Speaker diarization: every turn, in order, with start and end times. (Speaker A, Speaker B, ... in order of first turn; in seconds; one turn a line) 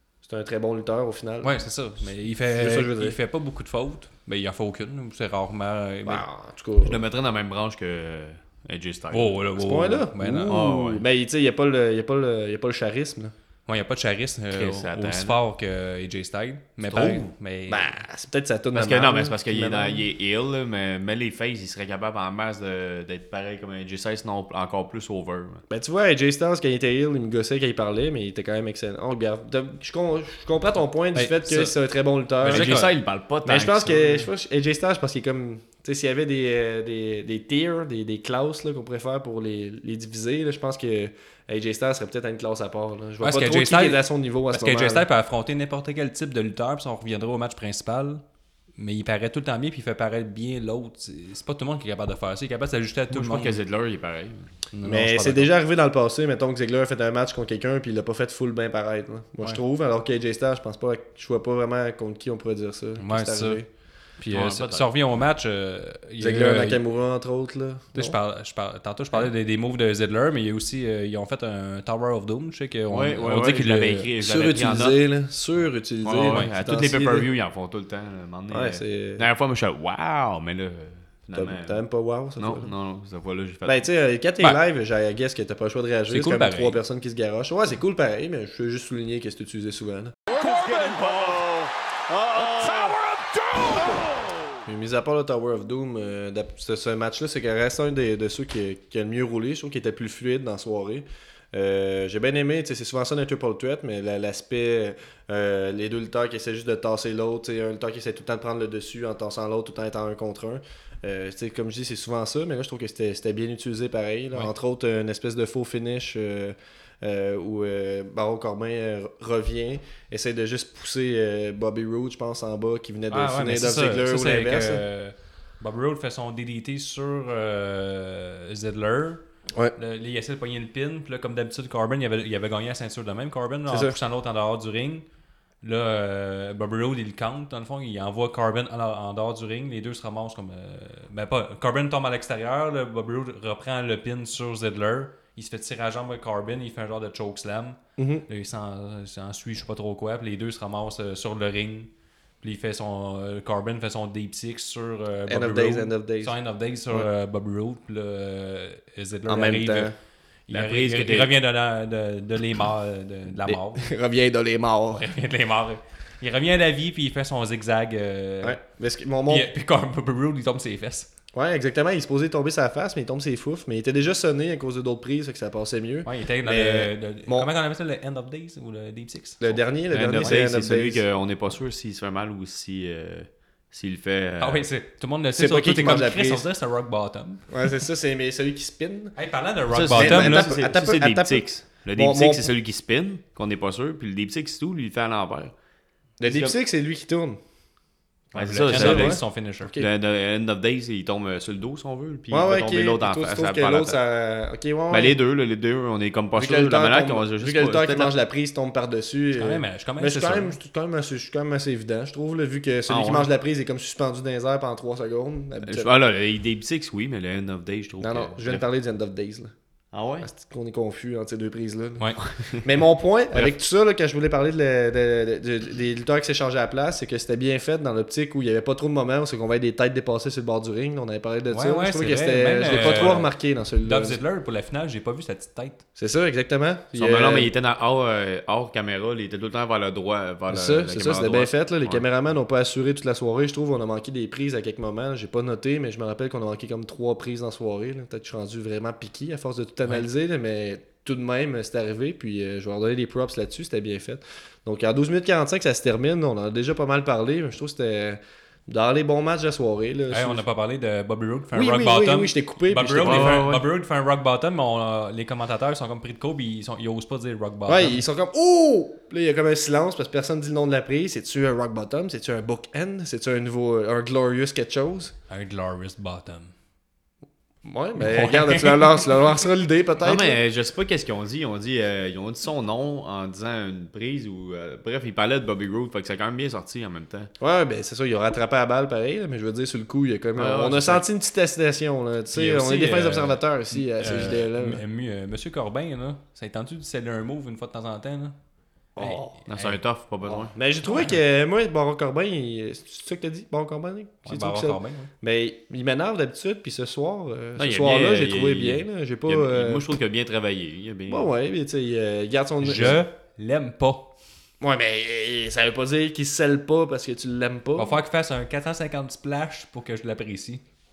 Speaker A: 0.2-1.6
Speaker B: 1.4-6.2
Speaker A: 2.4-3.2
Speaker A: 6.0-7.0
Speaker C: 6.8-9.4
Speaker B: 9.1-10.6
Speaker A: 9.6-13.3
Speaker C: 10.5-11.0
Speaker B: 13.7-18.0
Speaker C: 14.5-15.4
Speaker A: 16.8-20.1
Speaker C: 18.7-25.6
Speaker A: 25.7-32.9
Speaker B: 31.1-31.8
Speaker B: 32.4-32.9
Speaker C: 32.5-34.3
Speaker A: 33.5-45.1
Speaker B: 43.2-48.2
Speaker B: 48.8-53.6
Speaker C: 53.1-54.5
Speaker B: 54.7-55.5
Speaker A: 54.9-63.7
Speaker B: 63.0-63.6
Speaker B: 64.2-66.8
Speaker C: 64.3-64.9
Speaker A: 66.2-68.2
Speaker B: 68.0-74.1
Speaker C: 72.9-75.0
Speaker A: 74.2-77.3
Speaker C: 76.0-81.8
Speaker A: 78.5-79.3
Speaker A: 81.3-82.7
Speaker C: 82.4-83.8
Speaker A: 83.7-90.2
Speaker B: 86.1-86.8
Speaker A: 94.6-124.8
Speaker B: 123.1-129.2
Speaker B: 129.8-135.1
Speaker A: 133.7-134.0
Speaker B: 135.6-151.9
Speaker A: 148.0-148.2
Speaker B: 152.4-159.9
Speaker A: 155.3-156.4
Speaker A: 159.3-159.9
Speaker B: 160.5-163.9
Speaker C: 160.5-161.3
Speaker A: 163.4-165.1
Speaker B: 164.9-168.6
Speaker A: 168.4-169.5
Speaker B: 169.3-171.1
Speaker A: 171.3-177.5
Speaker B: 176.1-180.4
Speaker A: 179.4-181.0
Speaker C: 179.9-184.7
Speaker B: 184.4-187.7
Speaker A: 185.3-186.5
Speaker A: 187.5-189.2
Speaker B: 189.2-190.5
Speaker C: 189.7-195.5
Speaker A: 189.9-192.5
Speaker A: 196.2-197.4
Speaker C: 196.3-196.5
Speaker B: 198.3-199.7
Speaker C: 198.3-199.2
Speaker A: 198.7-199.9
Speaker C: 199.8-204.0
Speaker A: 202.3-205.2
Speaker C: 204.9-208.1
Speaker A: 206.4-215.9
Speaker B: 209.4-210.6
Speaker C: 212.9-213.3
Speaker C: 215.6-218.6
Speaker A: 218.0-219.5
Speaker C: 219.9-220.3
Speaker A: 220.2-234.2
Speaker B: 231.5-235.8
Speaker A: 236.0-237.5
Speaker C: 236.9-242.0
Speaker A: 240.5-260.4
Speaker B: 260.1-268.0
Speaker A: 261.5-263.4
Speaker C: 263.0-263.6
Speaker A: 267.7-275.1
Speaker B: 275.3-276.5
Speaker A: 277.6-280.4
Speaker B: 278.0-279.2
Speaker C: 280.0-287.3
Speaker A: 287.4-294.8
Speaker C: 290.4-291.0
Speaker B: 292.3-298.4
Speaker A: 299.0-299.4
Speaker B: 299.0-299.8
Speaker C: 299.5-300.5
Speaker A: 300.2-309.9
Speaker B: 300.9-301.1
Speaker B: 304.2-305.1
Speaker C: 307.6-311.3
Speaker A: 311.1-313.0
Speaker B: 312.6-314.1
Speaker A: 314.6-318.0
Speaker B: 317.8-320.6